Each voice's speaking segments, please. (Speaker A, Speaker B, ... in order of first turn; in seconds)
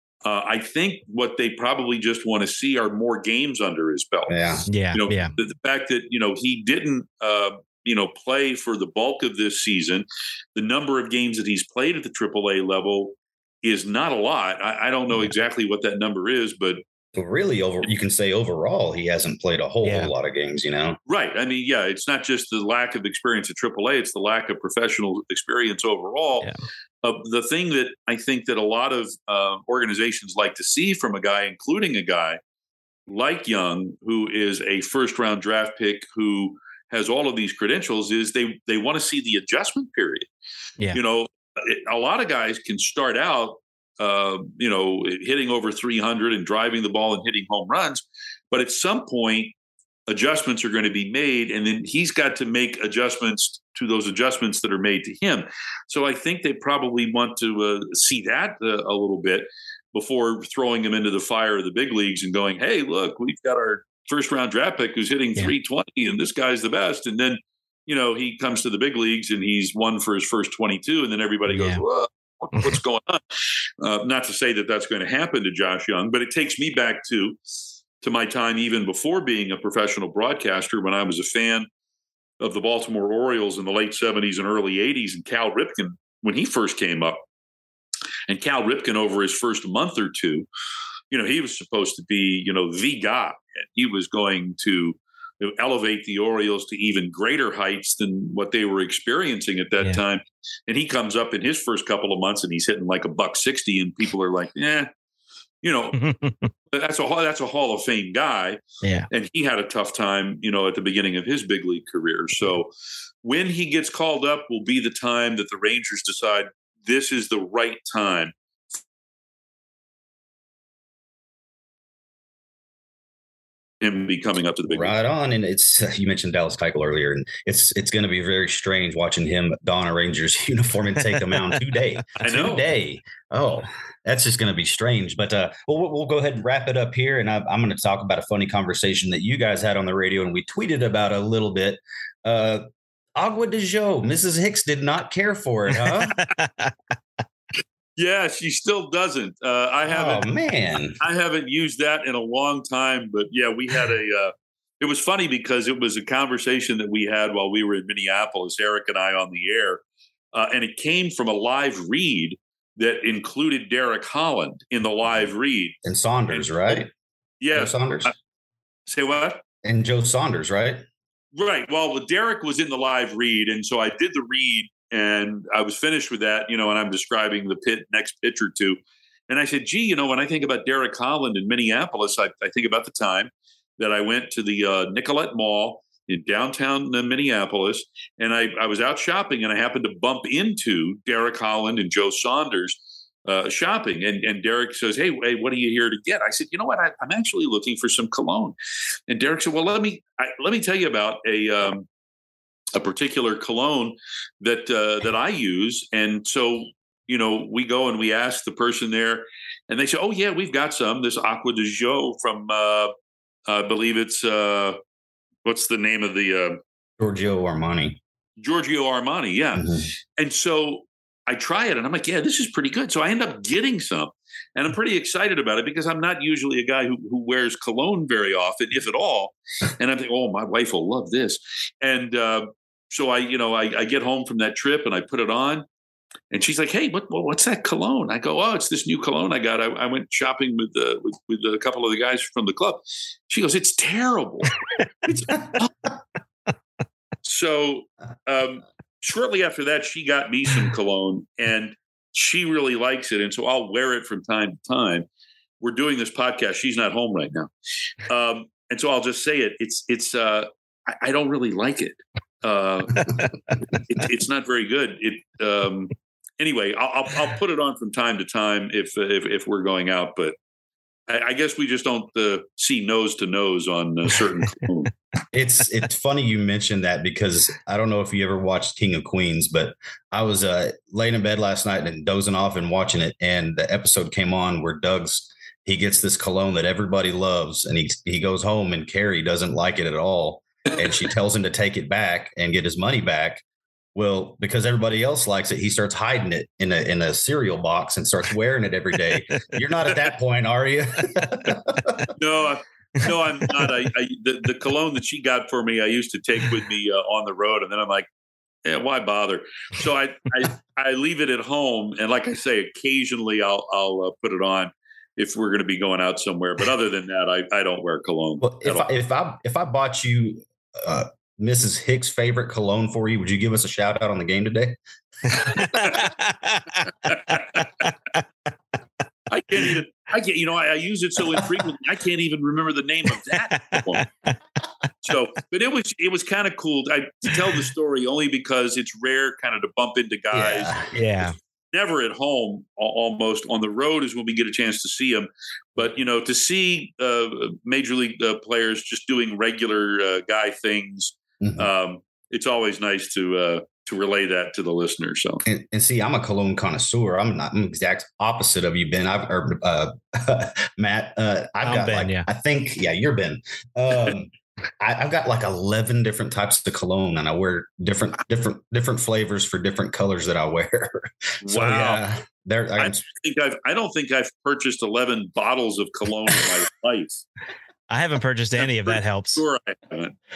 Speaker A: 0.2-4.4, 4.9-16.8, 21.1-26.5, 27.0-32.4, 33.1-40.3, 40.9-49.5, 50.1-73.2, 73.8-77.4, 78.0-81.7, 82.4-87.2, 88.3-90.5, 91.1-104.9, 105.6-106.0, 106.7-112.7, 113.2-118.3, 123.8-125.0, 132.2-132.7, 148.0-150.3, 151.0-159.8, 160.3-165.8, 167.4-168.1, 168.9-169.4, 171.3-178.8, 179.3-198.6, 199.1-201.9, 202.8-212.9, 213.5-214.8, 215.4-216.6, 218.4-235.7, 236.3-244.5, 247.2-255.1, 255.6-257.5, 258.1-270.4, 271.1-274.9, 302.2-308.1, 308.7-318.9, 329.3-334.1, 335.0-340.8, 341.7-355.4, 371.4-372.0, 372.8-377.3, 378.6-380.1
Speaker B: 4.3-4.7, 17.1-21.0, 124.7-146.3, 149.9-151.0, 165.8-166.9, 167.5-168.1, 169.6-170.8, 217.0-218.0, 219.6-219.9, 275.3-293.4, 293.9-302.1, 318.4-324.8, 325.3-325.6, 340.3-341.3, 351.4-351.7, 355.5-373.0
Speaker C: 4.7-5.3, 19.8-20.1, 71.5-71.8, 106.0-106.5, 108.8-109.1, 145.9-146.7, 325.4-327.6, 333.7-334.0, 340.9-341.3, 361.6-362.3, 377.9-379.4